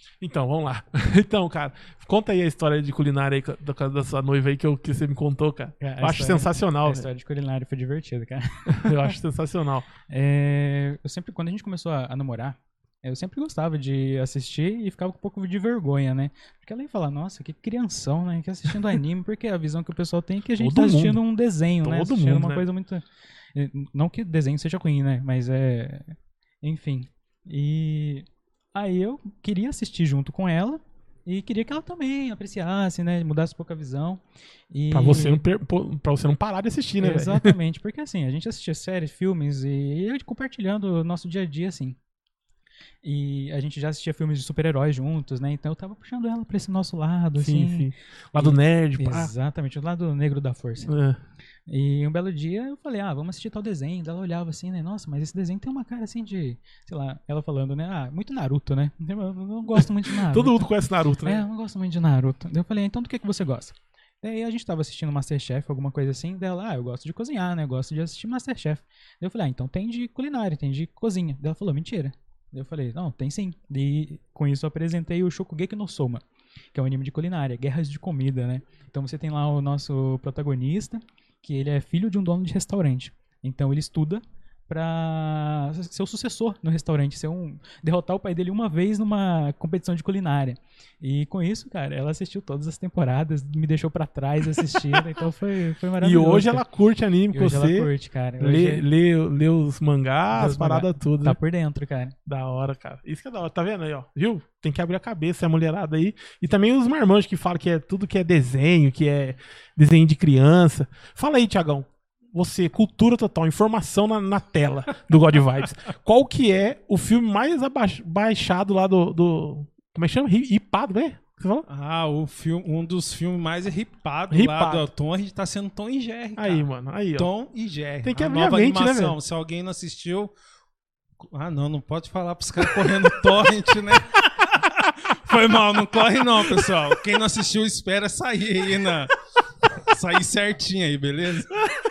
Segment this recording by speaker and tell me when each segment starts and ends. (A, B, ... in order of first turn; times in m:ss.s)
0:00.2-0:07.1 A
0:05.8-0:09.1 B
0:08.7-0:09.9 A
0:10.1-0:35.4 B
0:20.6-0:21.2 A
0:21.8-0:22.7 A
0:34.9-0:37.6 A
0:37.0-0:42.0 B
0:43.0-0:50.9 B
0:47.4-0:49.3 A
0:50.9-0:51.2 A
0:51.7-1:00.7 B
0:59.7-1:01.4 A
1:01.2-1:16.2 B
1:16.7-1:36.6 B
1:36.0-1:41.4 A
1:37.3-1:38.8 B
1:40.3-1:42.2 B
1:42.2-2:01.6 A
2:01.7-2:10.3 C
2:04.3-2:04.9 A
2:06.4-2:07.3 A
2:08.0-2:09.2 A
2:11.2-2:19.2 C
2:19.8-2:21.6 C